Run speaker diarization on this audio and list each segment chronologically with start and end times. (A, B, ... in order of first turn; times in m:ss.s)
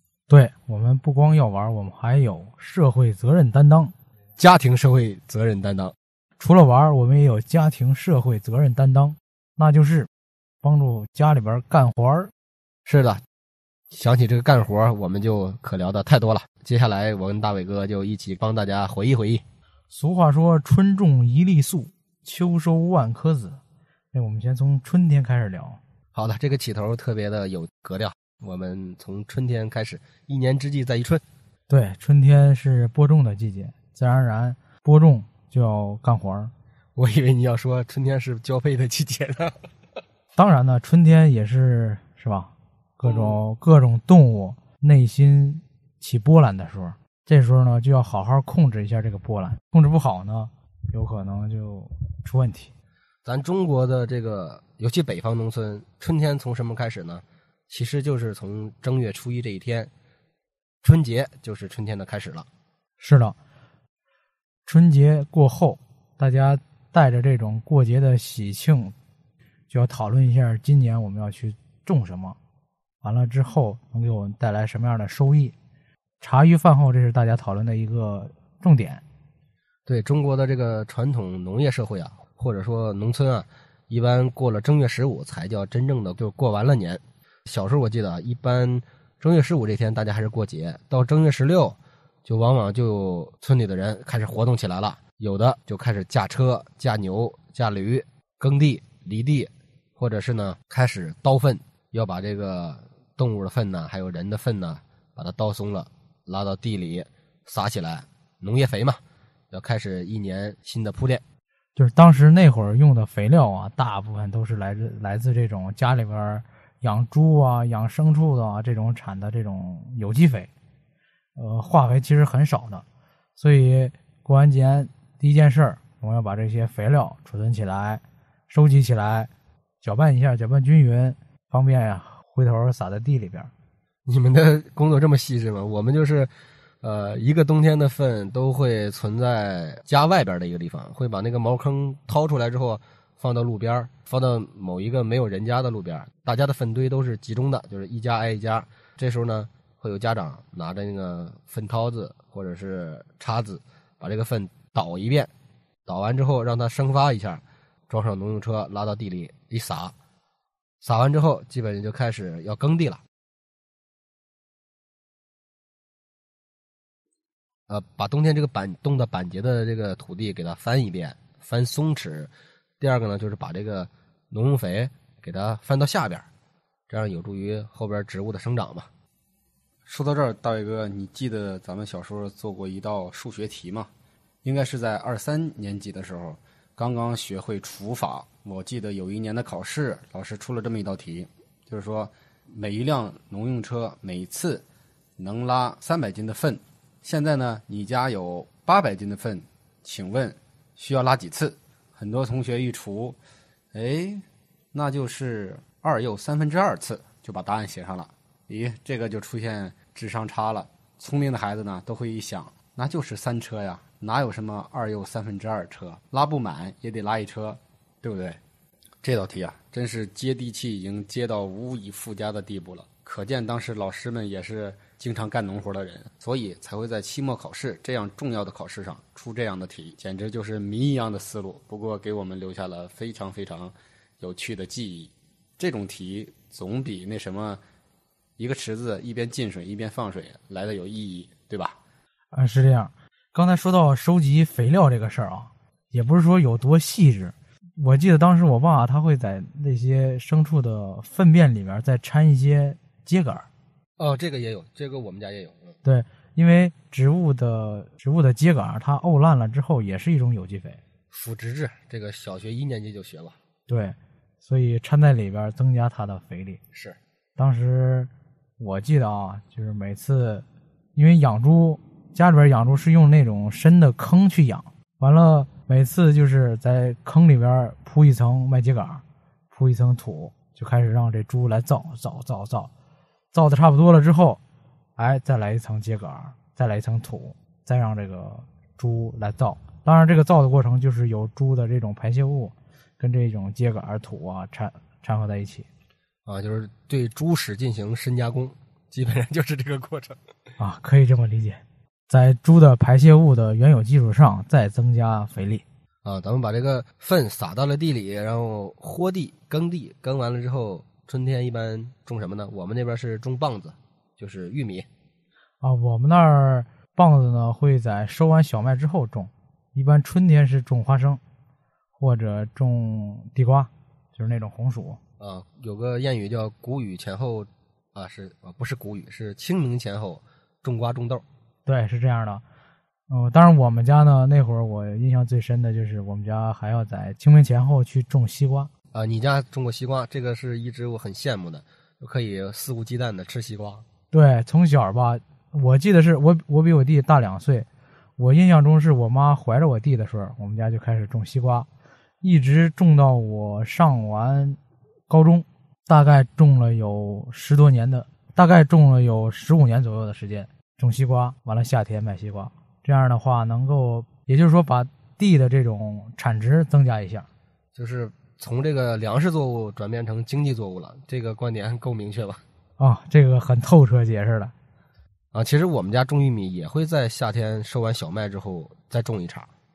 0:00.3-0:03.9 A
0:04.4-0:05.9 B
0:06.4-0:10.1 A
0:10.6-0:12.3 A
0:12.8-0:13.2 B
0:13.9-0:19.4 B
0:19.9-0:23.6 A
0:24.1-0:25.8 A
0:26.1-0:31.2 B
0:31.7-0:36.5 A
0:37.0-0:39.7 B
0:40.4-0:52.7 A
0:43.0-0:43.4 B
0:53.2-0:59.9 B
1:00.8-1:02.5 B
1:03.0-1:03.4 A
1:04.6-1:08.9 A
1:09.7-1:12.4 A
1:13.0-1:15.5 A
1:16.2-1:19.0 A
1:19.9-1:49.0 B
1:49.5-1:51.2 B
1:51.8-2:00.5 A
2:01.4-2:02.8 A
2:03.4-2:09.3 A
2:09.8-2:13.5 A
2:14.0-2:16.3 B
2:16.8-2:35.3 B
2:35.8-2:39.9 B
2:40.8-2:43.0 B
2:47.7-2:56.3 B
2:56.9-2:58.9 B
2:59.8-3:03.9 C
3:04.4-3:14.6 C
3:15.2-3:23.2 C
3:23.7-3:38.4 C
3:39.0-3:57.6 C
3:58.4-4:01.8 C
4:02.3-4:13.5 A
4:14.0-4:15.8 B
4:15.8-4:20.8 A
4:21.1-4:23.4 B
4:23.7-4:26.6 A
4:27.4-4:42.7 A
4:43.3-4:44.4 A
4:45.0-4:55.7 A
4:56.2-5:00.2 B
5:00.6-5:05.6 A
5:06.0-5:14.8 B
5:15.6-5:21.2 A
5:22.0-5:25.0 A
5:25.2-5:31.2 B
5:31.6-5:32.4 A
5:33.1-5:38.7 A
5:38.9-5:43.8 B
5:44.1-5:47.7 A
5:48.2-5:51.7 A
5:52.2-6:07.3 A
6:07.7-6:12.4 B
6:12.8-6:14.5 A
6:15.3-6:19.5 B